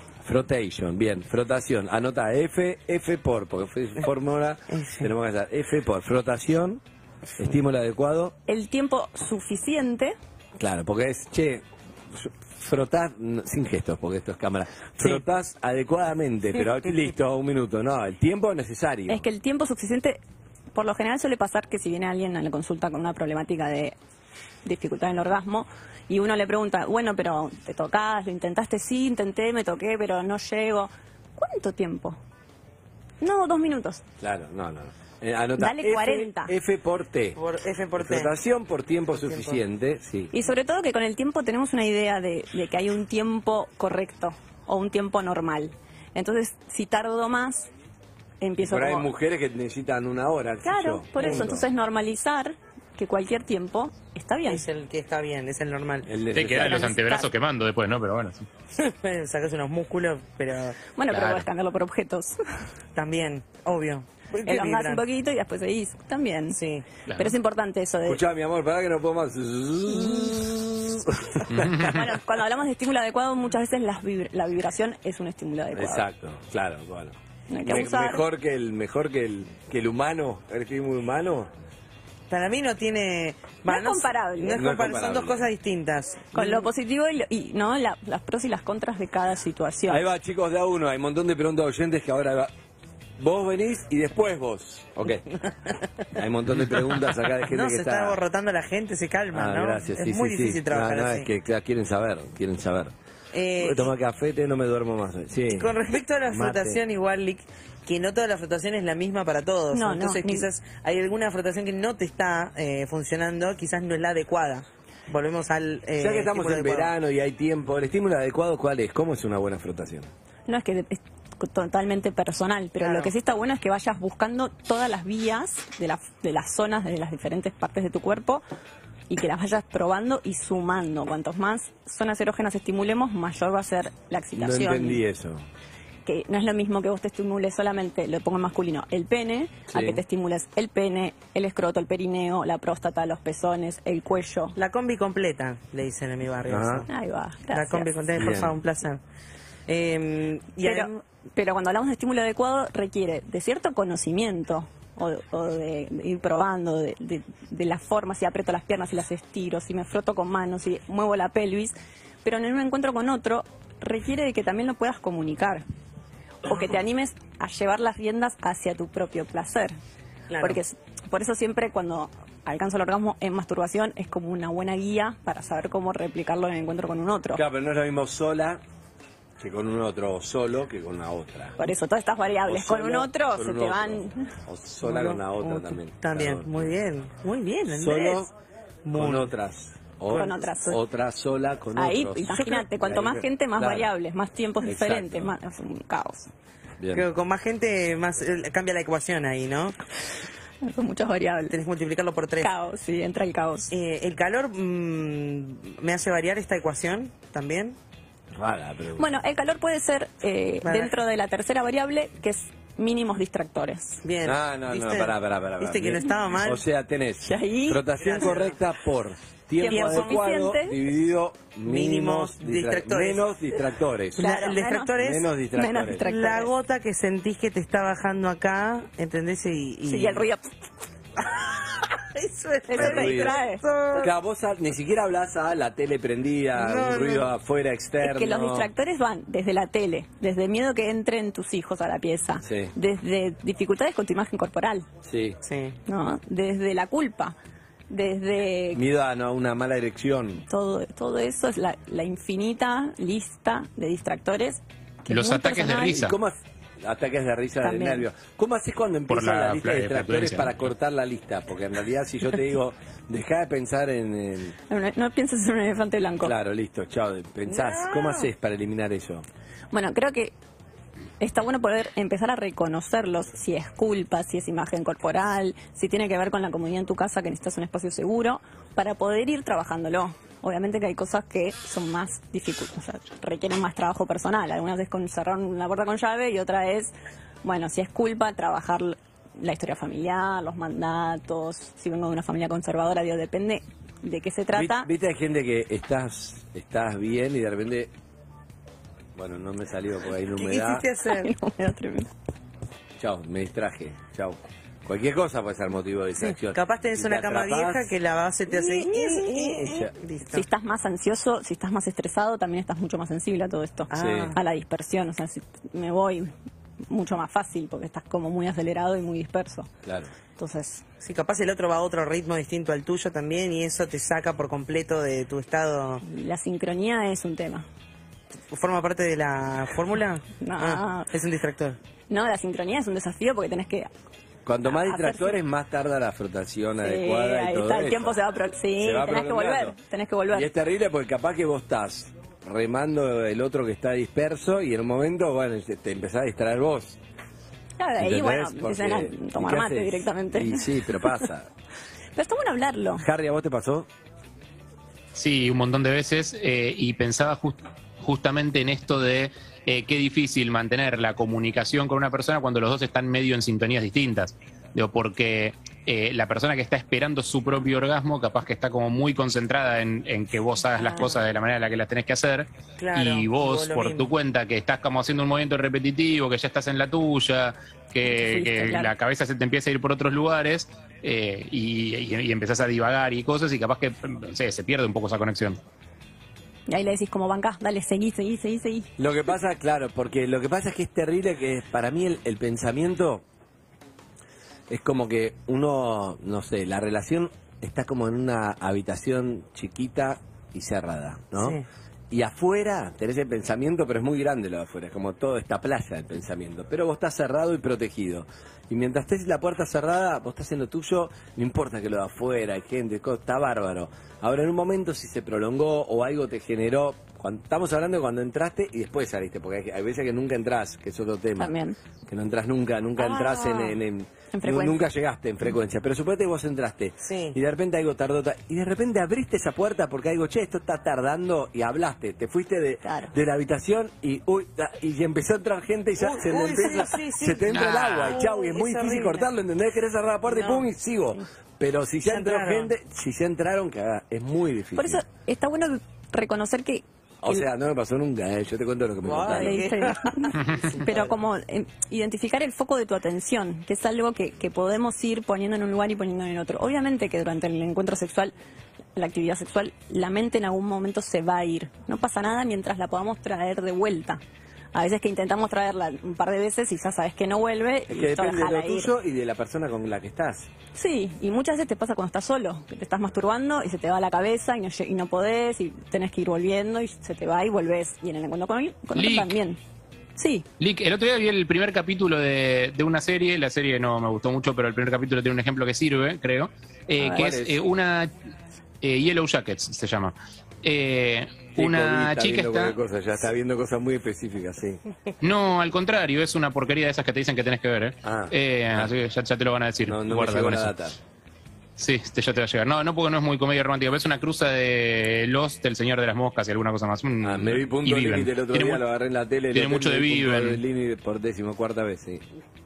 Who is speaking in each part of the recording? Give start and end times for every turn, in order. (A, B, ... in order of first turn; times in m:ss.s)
0:00.2-0:06.8 A
0:07.4-0:08.4 A
0:08.5-0:10.2 B
0:10.6-0:19.3 A
0:19.1-0:20.2 B
0:20.7-0:24.0 B
0:24.6-0:32.2 B
0:33.2-0:34.0 B
0:34.2-0:37.4 A
0:35.6-0:36.5 B
0:37.4-0:38.3 C
0:38.0-0:40.3 A
0:39.2-0:39.6 C
0:40.3-0:47.7 B
0:48.4-0:49.1 B
0:48.6-0:51.6 A
0:50.6-0:54.6 B
0:51.2-0:51.5 C
0:54.4-0:56.1 C
0:56.1-0:56.9 A
0:56.3-0:58.5 D
0:56.5-0:57.3 B
0:58.8-1:00.8 C
1:01.0-1:02.4 B
1:01.1-1:01.5 D
1:02.9-1:05.0 C
1:04.4-1:06.6 B
1:06.5-1:06.9 C
1:07.2-1:08.2 B
1:08.0-1:12.1 A
1:09.9-1:10.4 B
1:11.5-1:12.0 D
1:11.7-1:16.1 B
1:15.7-1:21.5 A
1:17.5-1:18.2 B
1:22.3-1:26.7 C
1:23.7-1:24.7 B
1:24.5-1:25.5 A
1:26.3-1:30.0 B
1:29.9-1:32.5 A
1:33.2-1:35.2 A
1:36.2-1:38.2 A
1:37.5-1:41.2 C
1:39.3-1:42.9 A
1:43.3-1:43.9 C
1:43.6-1:45.8 A
1:45.6-1:56.9 C
1:46.3-1:46.8 A
1:49.7-1:50.4 B
1:56.0-2:00.1 A
2:00.5-2:08.4 B
2:02.8-2:03.1 C
2:09.1-2:15.0 B
2:14.4-2:15.4 A
2:16.0-2:24.6 B
2:19.7-2:20.0 A
2:24.6-2:26.9 C
2:26.5-2:26.9 A
2:26.9-2:27.9 B
2:27.5-2:29.0 C
2:28.1-2:28.6 A
2:29.7-2:30.9 C
2:30.6-2:45.6 B
2:46.4-2:49.8 B
2:50.3-2:50.6 C
2:50.4-2:57.4 B
2:57.3-2:58.6 A
2:59.4-3:01.6 A
3:01.6-3:04.3 B
3:02.4-3:06.7 A
3:04.8-3:08.2 C
3:07.7-3:08.3 A
3:08.8-3:09.3 C
3:08.9-3:13.9 A
3:10.1-3:10.4 C
3:10.1-3:10.8 B
3:11.8-3:16.3 B
3:14.6-3:15.3 A
3:16.8-3:17.1 A
3:16.9-3:19.8 C
3:20.6-3:21.6 B
3:21.5-3:22.5 C
3:22.4-3:23.7 B
3:23.7-3:27.8 C
3:28.3-3:29.1 A
3:29.0-3:34.0 B
3:30.6-3:30.9 C
3:34.0-3:36.6 C
3:34.2-3:44.3 A
3:37.2-3:37.9 B
3:38.0-3:38.6 C
3:39.6-3:40.8 B
3:39.7-3:40.3 C
3:41.6-3:43.2 C
3:44.1-3:45.3 C
3:44.2-3:45.0 B
3:45.0-3:46.1 A
3:45.5-3:46.5 B
3:46.0-3:50.3 C
3:49.8-3:50.5 B
3:51.2-3:54.1 C
3:52.7-3:54.1 B
3:52.8-3:53.4 A
3:54.0-3:58.7 A
3:56.6-3:57.3 C
3:58.0-4:04.9 B
4:02.4-4:02.7 A
4:05.0-4:05.4 A
4:05.4-4:05.8 C
4:05.9-4:07.4 B
4:07.9-4:08.8 B
4:08.7-4:10.4 A
4:10.5-4:16.0 B
4:15.1-4:16.2 D
4:15.8-4:24.6 A
4:17.6-4:18.1 B
4:19.1-4:20.6 D
4:24.7-4:26.3 B
4:26.2-4:29.3 A
4:27.5-4:28.3 C
4:29.7-4:30.4 B
4:31.2-4:54.9 B
4:54.5-4:57.9 A
4:59.2-5:00.9 A
5:00.4-5:01.3 C
5:01.0-5:02.1 B
5:03.0-5:07.9 A
5:06.5-5:10.4 C
5:08.5-5:09.6 B
5:09.2-5:09.9 A
5:10.3-5:16.3 B
5:13.9-5:14.4 C
5:13.9-5:14.4 A
5:16.9-5:19.7 B
5:19.8-5:20.1 A
5:20.4-5:20.8 B
5:21.0-5:26.0 C
5:26.0-5:27.7 B
5:28.5-5:31.8 C
5:30.4-5:31.1 B
5:32.1-5:33.9 B
5:34.4-5:38.2 A
5:34.7-5:35.4 B
5:36.8-5:40.5 B
5:38.7-5:39.8 A
5:40.3-5:47.0 A
5:47.8-5:51.1 B
5:48.0-5:51.5 A
5:52.2-5:53.1 B
5:53.0-5:53.9 A
5:55.2-6:25.6 D
6:10.7-6:11.2 B
6:12.8-6:14.1 C
6:18.0-6:18.9 B
6:26.7-6:28.9 B
6:29.0-6:33.2 A
6:34.7-7:01.5 A
6:41.4-6:41.7 C
7:01.4-7:01.8 B
7:02.1-7:25.0 A
7:03.0-7:03.8 B
7:04.3-7:04.8 B
7:07.0-7:07.4 C
7:12.8-7:13.2 B
7:16.0-7:19.3 C
7:17.5-7:18.2 D
7:20.3-7:20.6 C
7:22.1-7:22.7 C
7:24.8-7:27.4 B
7:27.2-7:29.9 A
7:29.0-7:30.9 C
7:29.3-7:38.3 B
7:30.8-7:31.1 A
7:39.0-7:44.2 B
7:44.7-7:48.9 B
7:47.9-7:50.5 A
7:50.8-7:59.6 B
7:58.9-7:59.3 D
8:00.2-8:00.4 B
8:00.6-8:08.1 D
8:07.0-8:07.3 B
8:07.0-8:07.6 A
8:08.8-8:12.8 D
8:11.6-8:14.8 A
8:15.2-8:20.8 D
8:18.0-8:18.9 A
8:19.8-8:21.0 A
8:21.8-8:28.8 D
8:27.2-8:32.2 A
8:29.5-8:30.6 D